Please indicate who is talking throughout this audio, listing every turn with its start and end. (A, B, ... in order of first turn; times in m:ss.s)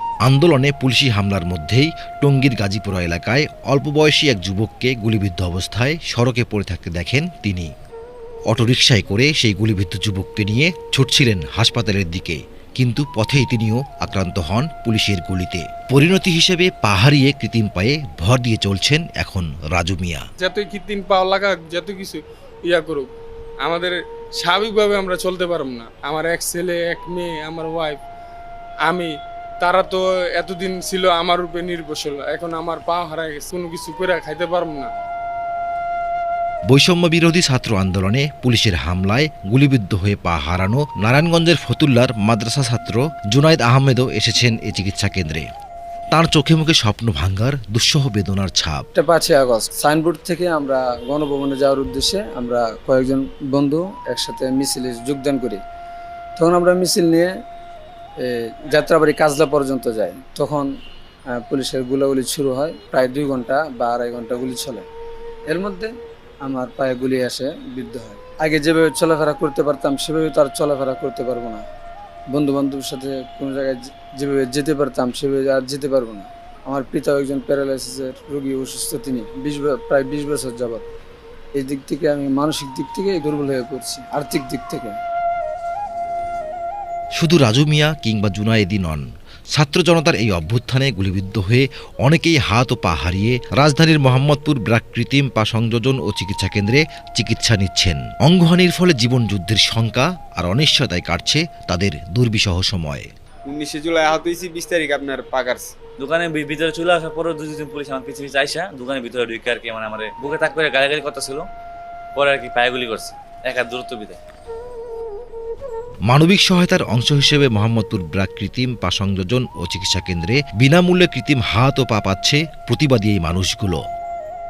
0:00.2-0:07.7 A
0:08.5-0:20.2 A
0:20.4-0:23.1 B
0:23.6-0:28.0 B
0:28.8-0:34.9 B
0:36.7-0:45.4 A
0:46.1-0:48.8 A
0:48.9-0:55.6 C
0:56.4-0:57.3 C
0:58.2-1:00.7 C
1:01.3-1:04.9 C
1:05.5-1:05.9 C
1:06.4-1:11.6 C
1:12.3-1:20.8 C
1:21.6-1:24.9 C
1:27.2-1:29.0 A
1:29.5-1:43.1 A
1:43.4-1:45.7 D
1:46.0-1:51.5 E
1:52.2-1:54.2 E
1:56.1-2:03.8 A